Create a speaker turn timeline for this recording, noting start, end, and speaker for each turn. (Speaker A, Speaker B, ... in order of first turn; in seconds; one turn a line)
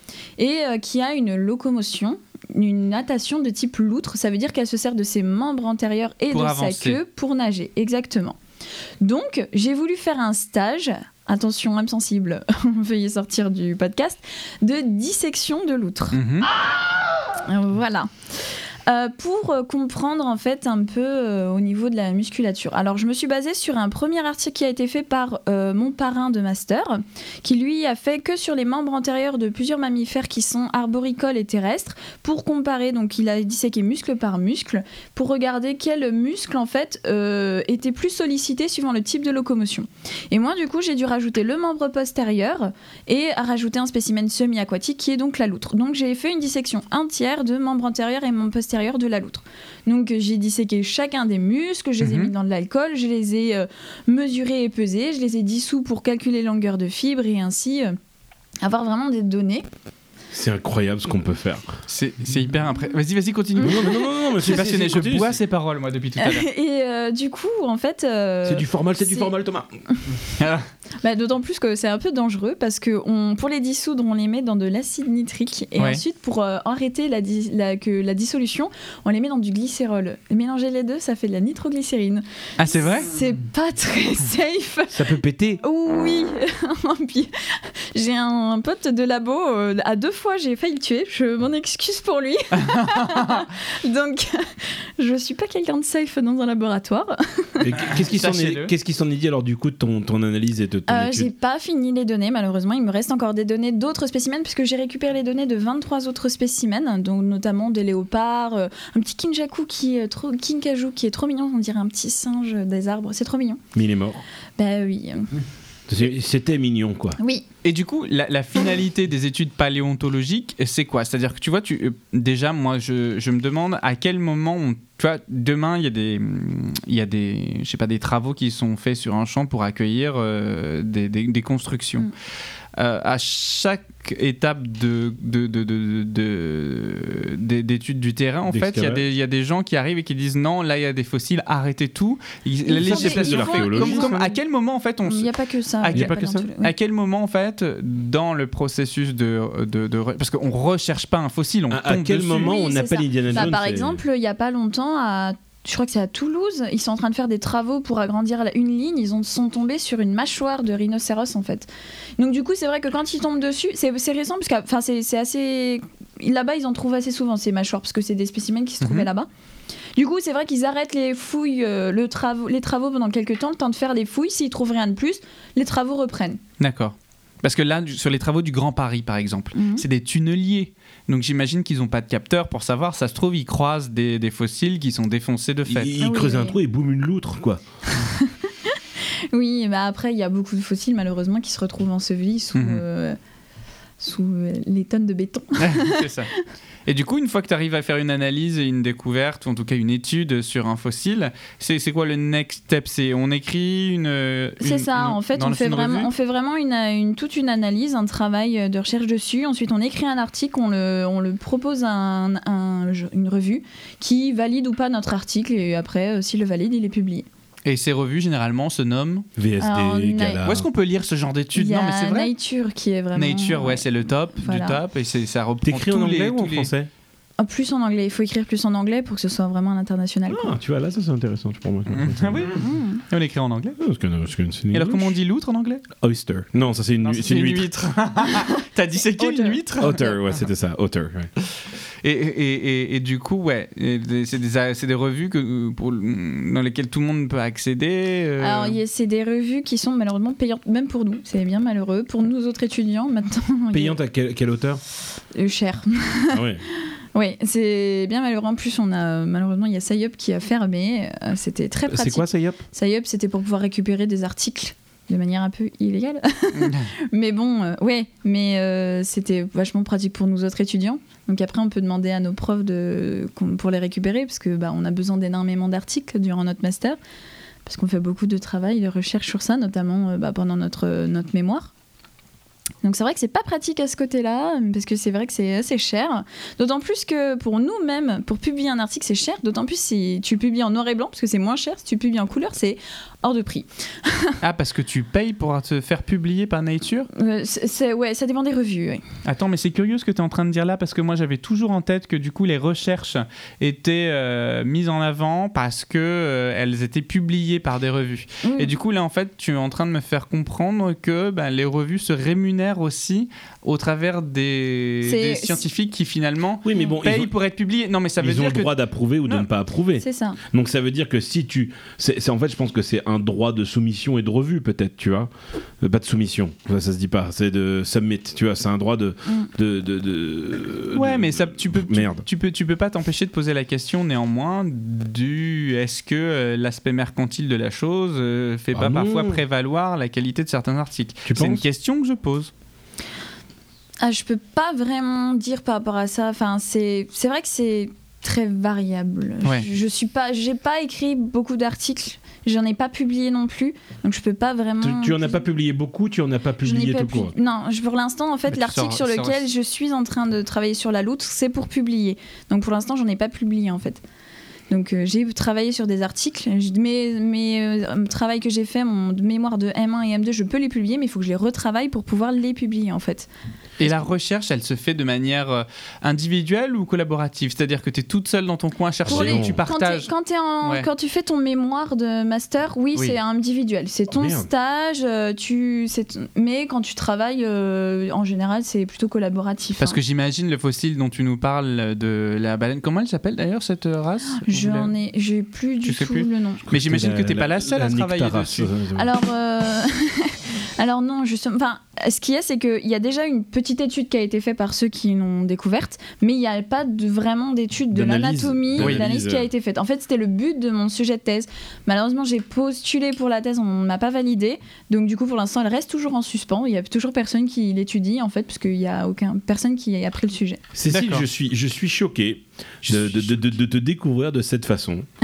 Speaker A: 0.4-8.4
Speaker B: 6.3-7.0
Speaker A: 9.0-16.2
Speaker B: 16.1-16.5
Speaker A: 17.4-58.0
Speaker B: 52.0-52.3
Speaker A: 58.6-59.7
Speaker C: 60.3-61.7
Speaker B: 61.9-66.5
Speaker C: 63.6-65.4
Speaker A: 66.2-69.3
Speaker C: 68.5-69.7
Speaker B: 70.4-70.7
Speaker A: 71.0-97.7
Speaker B: 82.6-83.1
Speaker C: 84.9-85.6
Speaker B: 92.6-93.4
Speaker C: 97.6-101.3
Speaker B: 97.8-98.7
Speaker A: 100.9-113.6
Speaker C: 113.7-114.2
Speaker A: 114.6-115.3
Speaker C: 115.9-117.2
Speaker A: 117.2-117.5
Speaker B: 117.6-132.1
Speaker B: 132.8-145.3
Speaker C: 138.5-139.1
Speaker A: 142.7-144.3
Speaker C: 142.8-144.3
Speaker A: 145.1-146.7
Speaker B: 145.8-152.5
Speaker C: 145.9-146.2
Speaker C: 151.7-154.0
Speaker A: 152.4-169.3
Speaker B: 168.8-169.1
Speaker A: 170.0-176.4
Speaker B: 176.6-185.9
Speaker A: 179.6-179.8
Speaker C: 185.7-187.6
Speaker A: 186.0-186.6
Speaker A: 187.9-188.8
Speaker A: 189.3-193.2
Speaker B: 192.6-192.8
Speaker A: 194.0-196.0
Speaker B: 195.6-196.3
Speaker B: 196.9-206.1
Speaker A: 204.6-217.3
Speaker B: 217.7-219.3
Speaker C: 219.4-220.7
Speaker A: 219.6-220.4
Speaker B: 220.4-222.3
Speaker A: 221.6-224.8
Speaker B: 223.2-226.7
Speaker C: 225.6-226.9
Speaker A: 227.4-230.5
Speaker C: 230.3-232.5
Speaker B: 231.9-233.8
Speaker A: 232.5-233.0
Speaker C: 233.8-235.2
Speaker B: 234.7-235.9
Speaker C: 236.0-237.7
Speaker B: 237.0-240.0
Speaker A: 239.2-240.1
Speaker C: 239.8-241.3
Speaker B: 242.0-248.8
Speaker A: 248.4-254.0
Speaker C: 253.7-254.8
Speaker A: 255.3-277.0
Speaker C: 256.3-256.6
Speaker C: 261.9-262.6
Speaker B: 266.6-266.9
Speaker A: 277.6-281.7
Speaker A: 282.8-294.4
Speaker B: 294.4-297.1
Speaker A: 297.1-299.1
Speaker B: 299.2-319.5
Speaker A: 308.4-308.7
Speaker A: 315.1-315.6
Speaker C: 316.6-317.3
Speaker C: 318.2-332.2
Speaker A: 320.0-320.4
Speaker B: 330.9-342.5
Speaker C: 338.7-339.4
Speaker C: 341.3-341.6
Speaker A: 344.0-355.4
Speaker C: 354.8-357.3
Speaker A: 356.6-364.0
Speaker B: 358.5-359.4
Speaker A: 364.7-373.3
Speaker B: 373.8-380.1
Speaker C: 379.1-379.6
Speaker A: 379.1-390.0
Speaker B: 380.6-380.9
Speaker C: 384.1-384.5
Speaker B: 389.8-394.9
Speaker A: 394.4-396.6
Speaker B: 395.9-398.7
Speaker C: 396.7-399.1
Speaker A: 399.0-420.6
Speaker C: 407.9-409.5
Speaker B: 408.8-409.0
Speaker C: 420.7-425.1
Speaker B: 420.9-421.2
Speaker B: 422.8-423.6